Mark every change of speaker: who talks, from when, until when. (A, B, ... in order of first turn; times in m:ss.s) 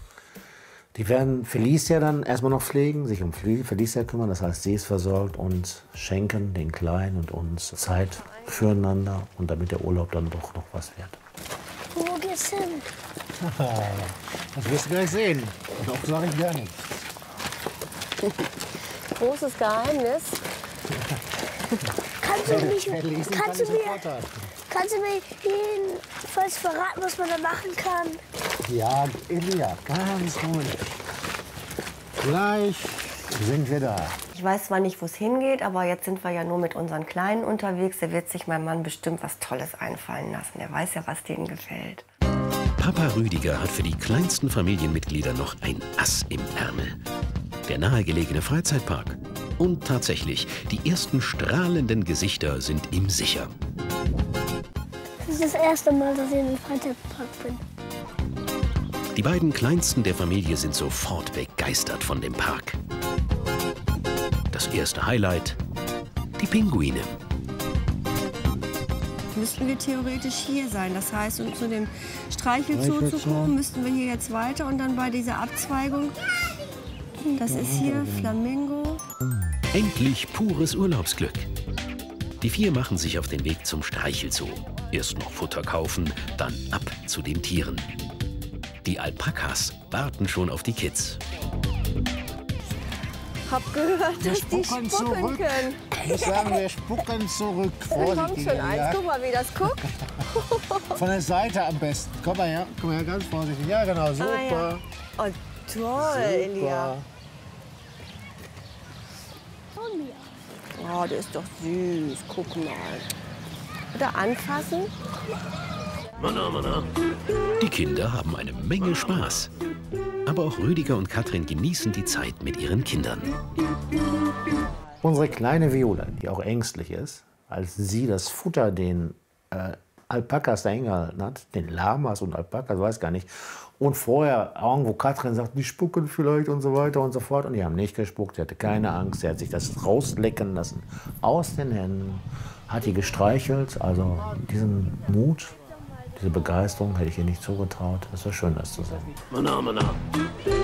0:00.9-0:11.2 A
0:11.9-0:12.8 B
0:13.4-0:16.8 A
0:19.1-0:20.4 C
0:22.2-0:24.0 B
0:22.4-0:24.5 A
0:24.7-0:28.2 B
0:28.6-0:30.9 A
0:32.2-0:34.2 A
0:34.3-0:42.0 C
0:42.8-0:47.0 D
0:47.7-0:53.5 D
0:55.2-0:57.6 B
0:59.1-1:02.8 D
1:04.5-1:05.6 D
1:06.4-1:07.2 D
1:09.3-1:16.2 C
1:12.7-1:13.6 A
1:17.2-1:19.0 C
1:17.4-1:18.4 A
1:19.7-1:21.5 D
1:22.4-1:27.9 D
1:28.8-1:31.2 D
1:33.4-1:36.3 C
1:34.2-1:39.0 A
1:37.9-1:41.0 C
1:40.9-1:44.8 A
1:44.2-1:46.9 C
1:46.0-1:47.1 A
1:49.8-1:50.3 B
1:50.8-1:53.1 C
1:53.9-1:54.9 C
1:57.6-1:59.5 D
2:00.2-2:03.3 D
2:05.0-2:25.6 A
2:26.2-2:29.1 A